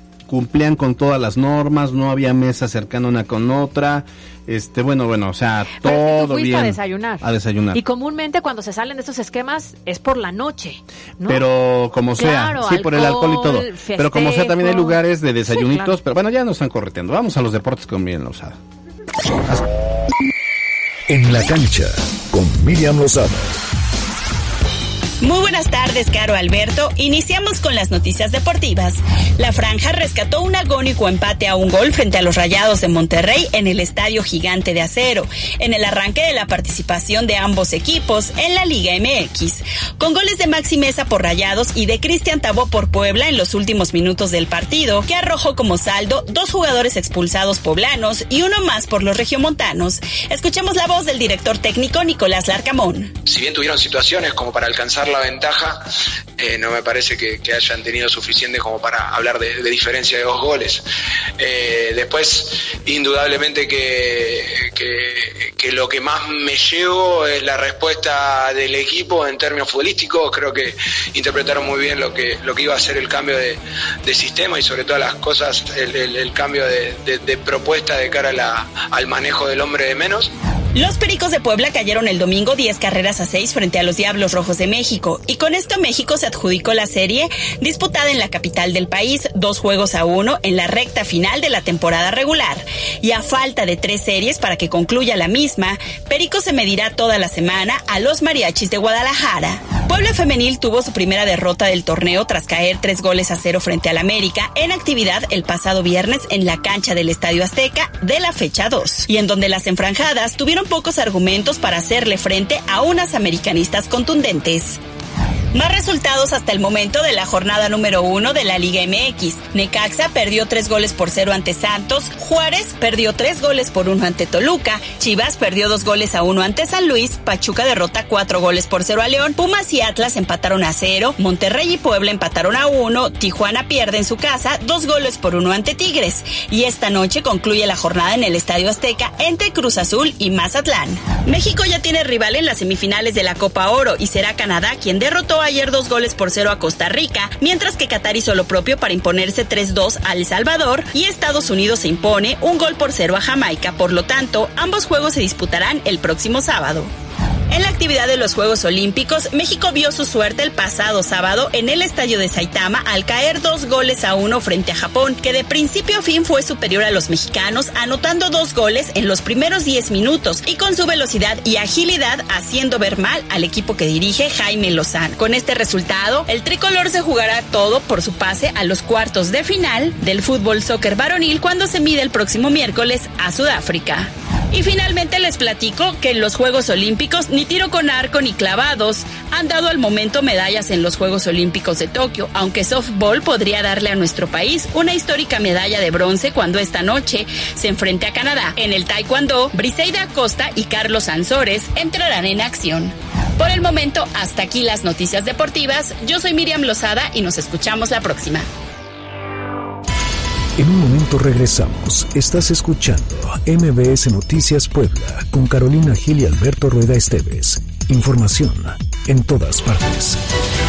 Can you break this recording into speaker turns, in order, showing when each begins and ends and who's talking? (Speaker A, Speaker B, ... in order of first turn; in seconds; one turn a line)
Speaker A: 0.3-7.8
Speaker B: 5.8-11.4
Speaker A: 11.3-18.6
Speaker B: 12.2-15.0
Speaker B: 15.5-15.9
Speaker C: 21.1-23.6
Speaker D: 25.2-53.1
Speaker E: 53.3-55.8
Speaker E: 56.4-60.8
Speaker E: 61.4-80.3
Speaker D: 80.8-114.8
Speaker D: 115.5-156.9
Speaker D: 157.5-208.4
Speaker C: 210.6-220.2